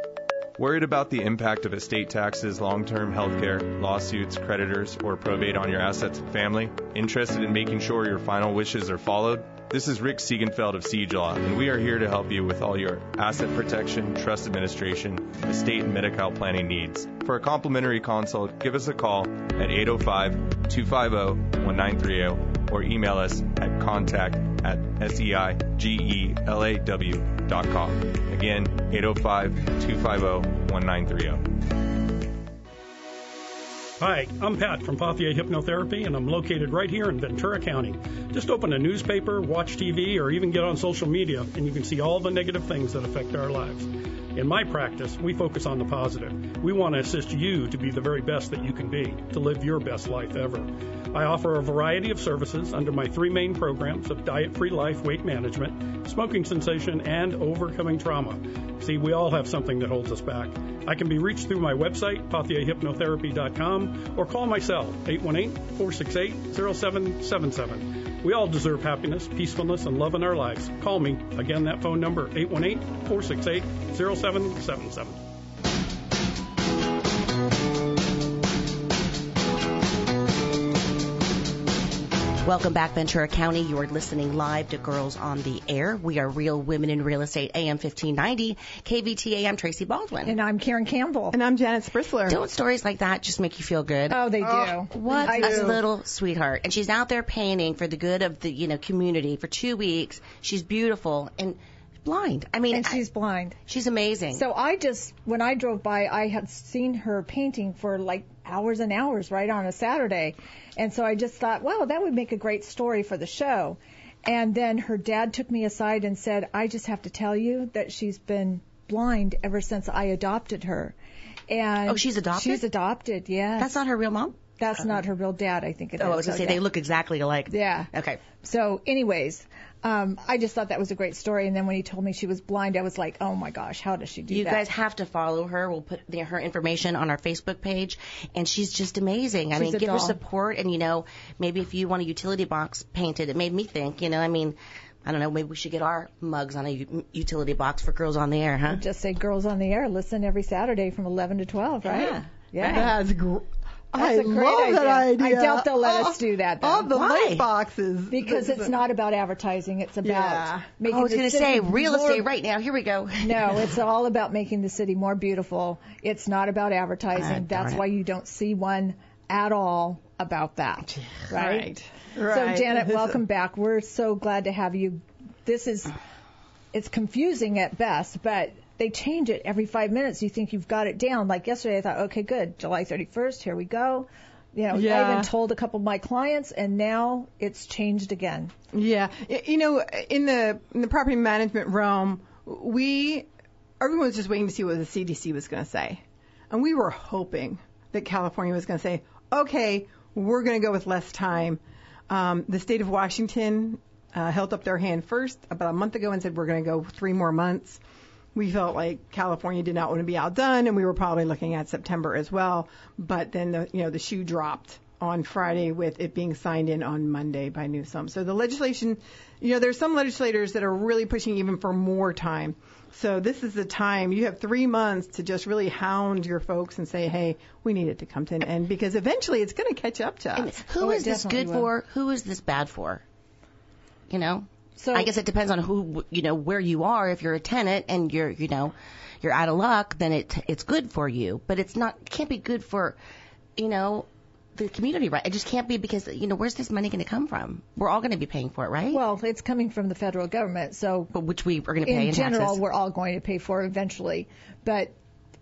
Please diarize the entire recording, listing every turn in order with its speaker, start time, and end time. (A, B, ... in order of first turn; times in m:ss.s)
0:00.6-0:31.5 A
0:34.0-1:15.2 B
1:22.4-1:30.4 C
1:30.3-1:31.4 D
1:31.3-1:32.4 E
1:32.3-1:34.3 C
1:34.1-1:35.8 D
1:34.4-1:35.8 E
1:34.9-1:43.0 C
1:42.7-1:43.6 D
1:43.7-1:44.4 C
1:44.3-2:01.0 D
2:01.5-2:03.8 D
2:01.9-2:02.7 C
2:03.6-2:04.8 C
2:04.6-2:06.6 D
2:06.0-2:08.2 C
2:07.5-2:07.9 D
2:08.4-2:14.6 D
2:14.3-2:28.8 C
2:19.6-2:20.2 D
2:28.7-2:32.9 D
2:31.8-2:32.8 C
2:32.6-2:38.8 E
2:34.0-2:36.9 D
2:36.9-2:37.5 C
2:38.1-2:42.3 D
2:40.0-2:40.7 E
2:40.9-2:43.6 C
2:43.2-2:51.7 D
2:47.1-2:47.8 C
2:51.3-2:53.2 E
2:52.3-2:55.9 D
2:56.7-3:08.5 D
3:04.7-3:05.3 E
3:08.7-3:13.3 E
3:13.8-3:27.8 E
3:28.3-3:50.5 E
3:50.4-3:53.0 C
3:50.8-3:51.7 D
3:54.1-4:03.0 C
3:54.8-3:55.1 D
4:03.6-4:09.0 C
4:08.9-4:11.1 D
4:11.1-4:12.6 C
4:11.8-4:14.9 D